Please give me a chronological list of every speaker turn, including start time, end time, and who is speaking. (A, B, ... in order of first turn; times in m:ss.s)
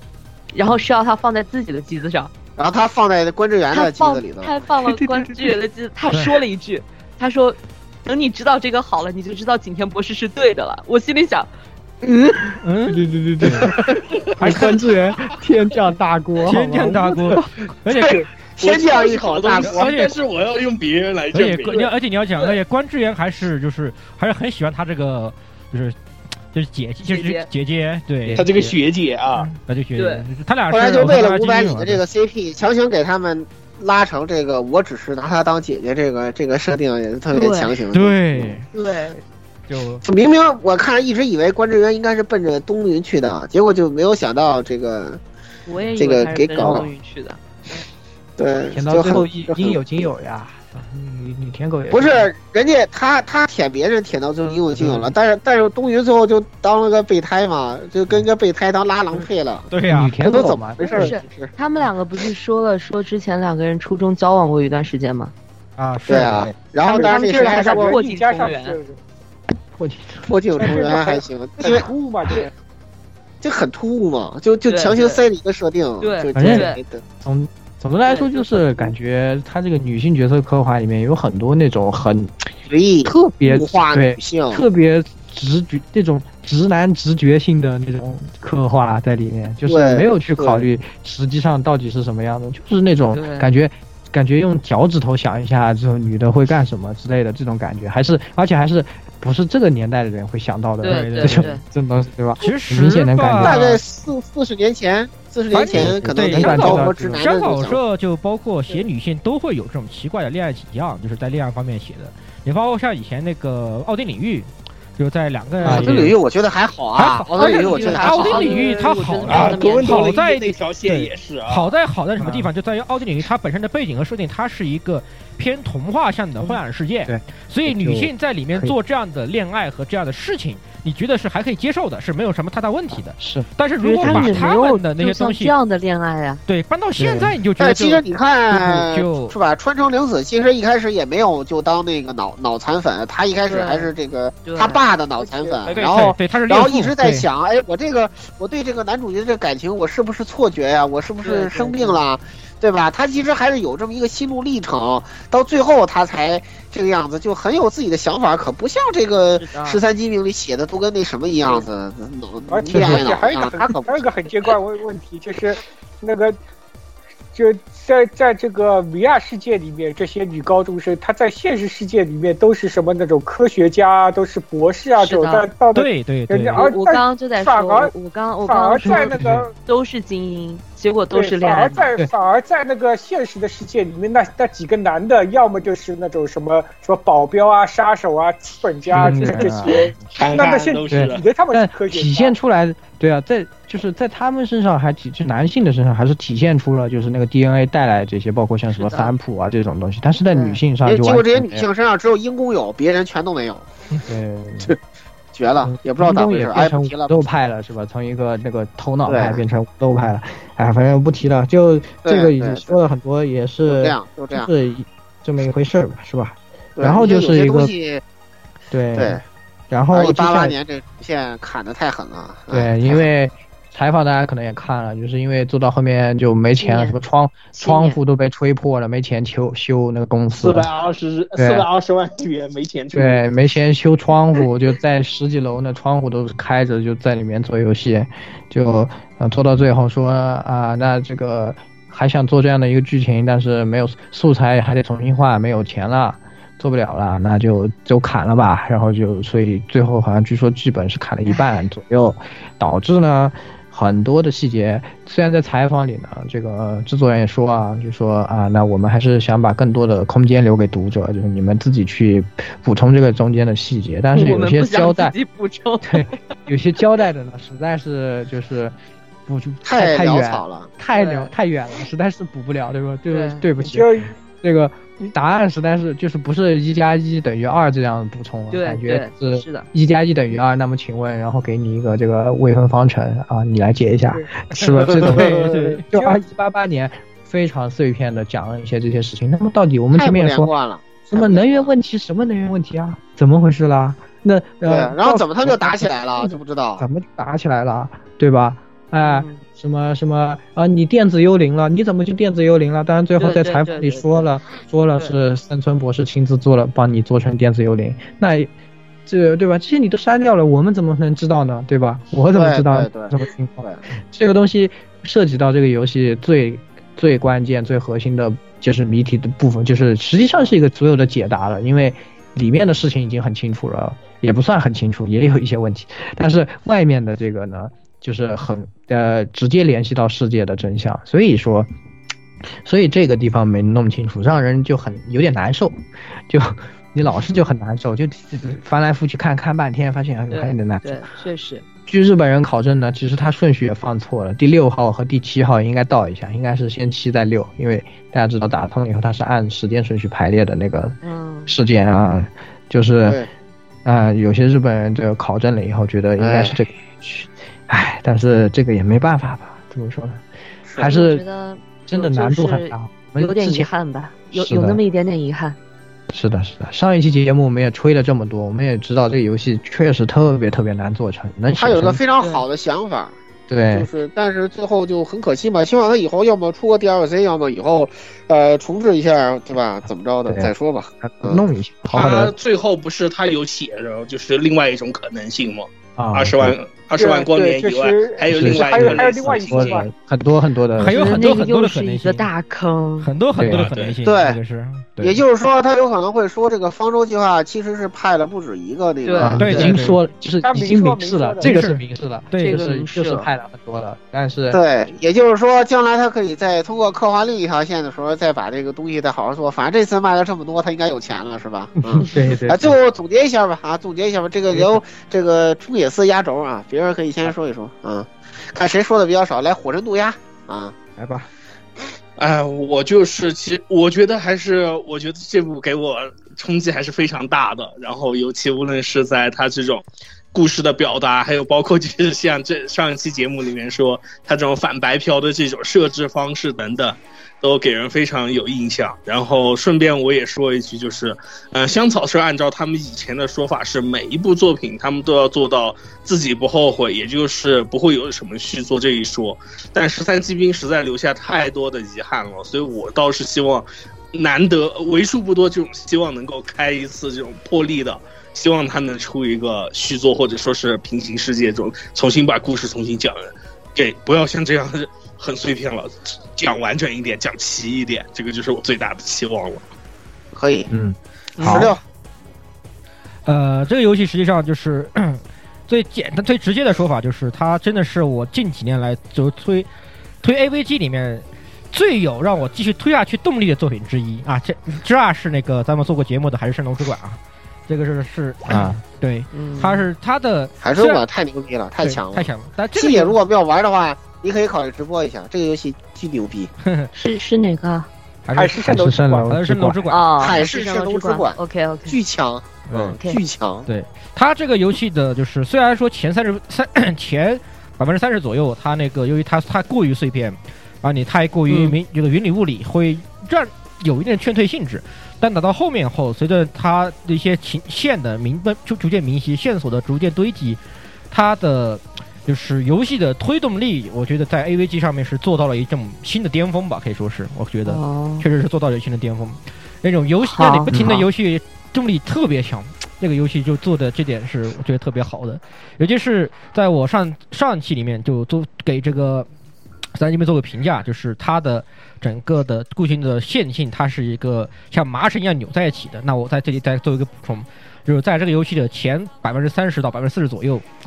0:00.5-0:02.3 A
0:02.6-0:04.5 B
0:03.7-0:11.5 A
0:04.8-0:05.6 C
0:06.1-0:06.4 D
0:12.6-0:13.7 D
0:12.9-0:17.4 C
0:16.4-0:18.2 D
0:17.9-0:19.9 B
0:18.6-0:22.5 E
0:19.6-0:20.2 D
0:21.3-0:26.0 D
0:26.5-0:28.7 D
0:27.0-0:27.5 A
0:28.2-0:28.6 C
0:28.3-0:29.5 E
0:29.3-0:32.0 D
0:30.0-0:30.3 A
0:30.7-0:38.5 B
0:37.3-0:37.8 A
0:37.9-0:38.7 D
0:38.7-0:39.2 A
0:39.7-0:40.0 D
0:40.0-0:45.2 B
0:45.7-0:47.4 A
0:46.0-0:46.9 B
0:48.4-0:49.8 B
0:48.7-0:52.3 C
0:51.9-0:59.7 B
0:54.7-0:55.1 C
0:59.7-1:00.1 D
0:59.9-1:01.1 C
1:00.2-1:01.5 B
1:00.9-1:05.3 A
1:05.8-1:06.6 D
1:06.1-1:07.9 B
1:06.9-1:08.8 A
1:06.9-1:09.0 F
1:09.8-1:10.3 C
1:10.2-1:11.9 B
1:10.6-1:12.5 F
1:13.4-1:17.0 B
1:14.6-1:15.2 A
1:16.0-1:16.8 A
1:16.3-1:16.7 C
1:17.2-1:22.5 C
1:18.0-1:18.9 A
1:22.7-1:24.6 B
1:23.0-1:43.8 C
1:29.6-1:30.6 B
1:33.1-1:33.5 A
1:40.8-1:41.6 A
1:40.8-1:41.6 D
1:42.4-1:43.7 D
1:43.4-1:47.8 B
1:45.5-1:56.1 D
1:45.7-1:47.2 C
1:55.6-1:56.2 C
1:55.6-1:58.4 B
1:57.0-2:15.6 D
1:57.3-2:00.1 A
1:59.2-2:01.7 E
2:02.2-2:02.5 C
2:06.4-2:08.8 C
2:13.2-2:13.5 C
2:13.8-2:16.4 A
2:14.0-2:14.4 C
2:16.5-2:19.4 D
2:17.0-2:17.3 C
2:17.6-2:44.1 B
2:23.5-2:23.9 A
2:24.4-2:25.6 A
2:25.6-2:27.3 D
2:31.2-2:32.0 A
2:39.4-2:39.8 A
2:42.5-2:46.4 F
2:42.7-2:43.1 C
2:47.3-2:59.5 F
2:55.0-2:55.5 A
2:55.7-2:56.6 D
2:56.5-3:01.9 A
2:58.8-2:59.4 C
3:01.1-3:12.3 F
3:08.9-3:10.0 C
3:09.6-3:11.2 E
3:10.9-3:21.6 C
3:18.7-3:19.1 A
3:20.3-3:20.6 A
3:20.8-3:23.7 B
3:24.1-3:24.7 C
3:25.3-3:27.2 B
3:25.6-3:37.7 C
3:29.0-3:29.4 B
3:32.0-3:32.8 B
3:33.6-3:34.5 B
3:36.8-3:38.0 B
3:38.7-3:40.5 C
3:38.9-3:39.2 B
3:39.9-3:43.0 B
3:42.5-3:50.7 C
3:46.6-3:47.0 A
3:47.5-3:48.0 A
3:50.3-3:53.2 E
3:51.4-3:51.7 C
3:52.9-4:25.1 C
4:24.1-4:26.1 A
4:25.8-4:28.7 C
4:29.2-4:50.5 C
4:29.6-4:30.7 B
4:30.9-4:31.3 A
4:33.1-4:33.4 A
4:33.6-4:34.2 F
4:38.5-4:39.7 A
4:44.8-4:45.8 D
4:49.9-4:51.7 B
4:51.1-5:08.5 C
4:54.6-4:56.8 B
4:59.0-4:59.4 A
5:03.2-5:04.2 A
5:09.0-5:31.7 C
5:12.3-5:13.8 B
5:20.2-5:20.5 A
5:32.6-5:41.1 C
5:40.3-5:41.6 A
5:41.9-5:53.2 C
5:51.0-5:51.6 A
5:53.8-6:00.2 C
5:56.2-5:56.6 B
6:00.6-6:01.0 B
6:00.8-6:01.2 C
6:00.8-6:05.6 A
6:01.9-6:03.7 C
6:04.3-6:04.8 C
6:06.1-6:12.0 C
6:11.6-6:13.1 B
6:13.5-6:13.9 C
6:13.7-6:21.4 B
6:20.2-6:22.3 C
6:21.9-6:29.8 E
6:26.0-6:26.5 C
6:27.0-6:29.9 F
6:28.3-6:31.2 C
6:30.8-6:32.3 D
6:30.8-6:33.1 A
6:33.0-6:35.2 D
6:33.4-6:33.7 C
6:33.5-6:34.0 E
6:34.0-6:34.4 B
6:35.0-6:39.6 B
6:39.0-6:39.7 A
6:39.2-6:44.6 C
6:39.4-6:40.0 D
6:40.4-6:41.6 F
6:41.4-6:41.8 D
6:42.3-6:42.7 D
6:42.4-6:43.3 A
6:44.5-7:00.7 B
6:51.8-6:52.8 C
6:52.0-6:52.3 A
6:54.5-6:54.8 C
7:01.0-7:01.3 C
7:02.2-7:49.6 E
7:50.3-7:50.7 B
7:50.7-7:51.7 C
7:51.4-7:51.7 A
7:51.4-7:51.8 B
7:53.2-7:59.7 D
8:00.2-8:11.0 D
8:08.5-8:08.8 C
8:09.3-8:09.9 A
8:10.6-8:16.5 B
8:11.8-8:13.2 D
8:16.6-8:16.9 D
8:16.9-8:17.9 A
8:18.2-8:20.3 D
8:18.3-8:19.0 F
8:18.6-8:19.8 C
8:19.9-8:22.0 A
8:20.2-8:23.7 B
8:22.7-8:23.0 D
8:23.7-8:59.3 D
8:31.5-8:31.8 A
8:47.6-8:48.2 A
8:50.2-8:51.0 A
8:50.7-8:51.0 C
8:59.9-9:10.6 D